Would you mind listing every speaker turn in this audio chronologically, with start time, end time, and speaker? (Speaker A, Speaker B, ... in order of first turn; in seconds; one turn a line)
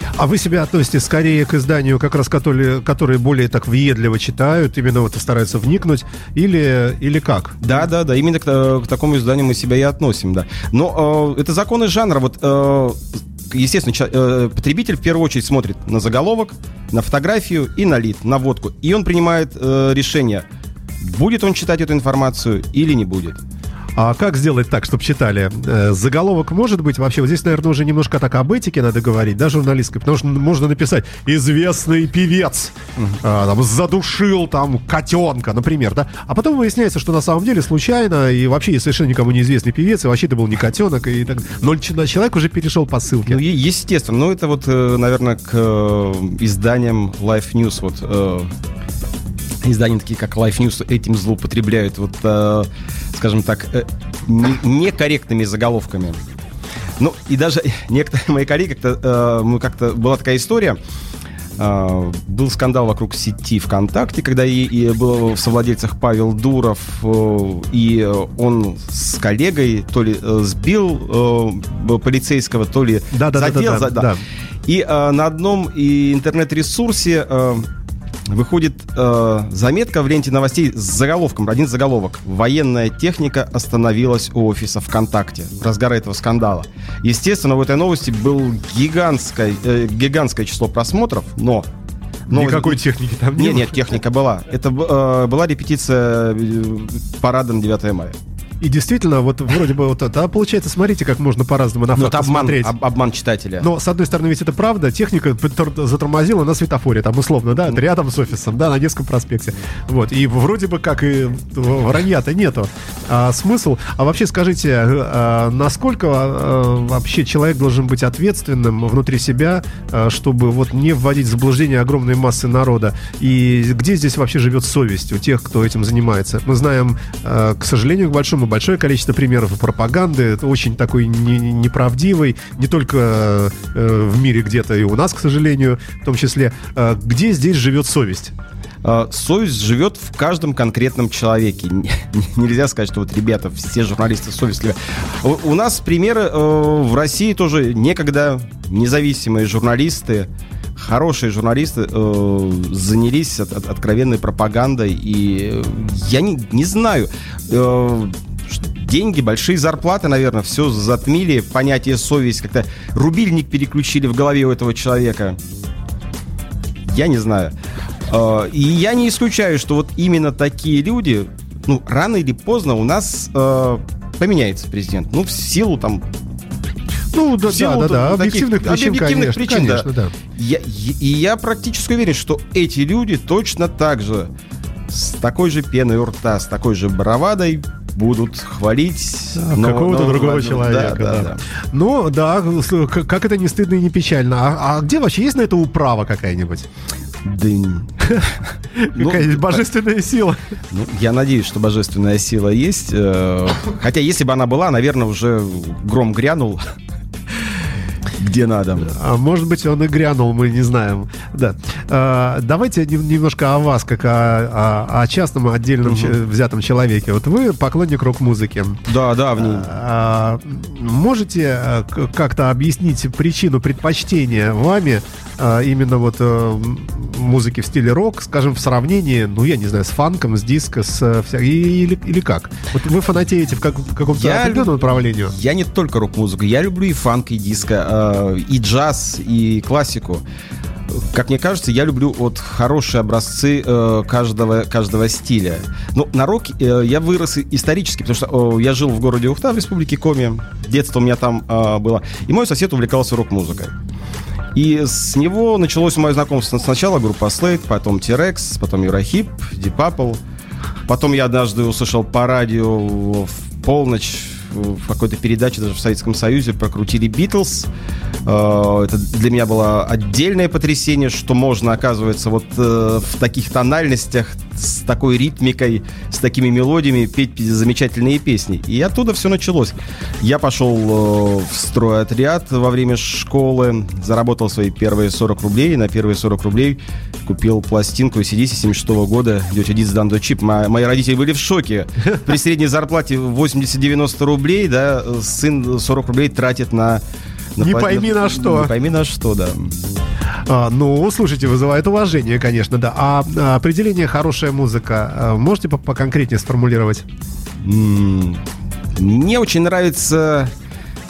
Speaker A: 0.2-7.6
Speaker B: 7.6-20.4
Speaker B: 21.0-23.4
Speaker A: 24.0-43.4
Speaker B: 43.2-48.5
Speaker B: 49.6-56.2
Speaker B: 57.0-60.8
Speaker B: 61.6-74.1
Speaker A: 73.1-74.2
Speaker B: 74.7-77.7
Speaker B: 78.3-91.7
Speaker A: 92.3-93.8
Speaker B: 92.3-92.8
Speaker B: 93.4-98.2
Speaker A: 98.6-102.7
Speaker B: 102.0-103.7
Speaker A: 103.6-138.3
Speaker B: 138.8-165.4
Speaker B: 166.8-167.5
Speaker B: 168.1-176.1
Speaker A: 177.1-180.1
Speaker B: 177.5-184.3
Speaker B: 184.9-191.4
Speaker A: 189.3-196.7
Speaker B: 197.2-198.4
Speaker A: 198.8-200.4
Speaker B: 198.9-199.6
Speaker B: 200.7-206.7
Speaker B: 208.2-208.9
Speaker A: 208.8-218.8
Speaker B: 215.8-216.2
Speaker B: 218.9-219.7
Speaker A: 219.4-235.3
Speaker B: 234.1-240.2
Speaker B: 240.9-253.7
Speaker B: 254.6-260.2
Speaker B: 260.9-267.7
Speaker B: 268.2-297.0
Speaker B: 297.6-299.8
Speaker A: 297.6-298.7
Speaker A: 300.5-307.1
Speaker B: 307.6-308.4
Speaker B: 308.9-310.5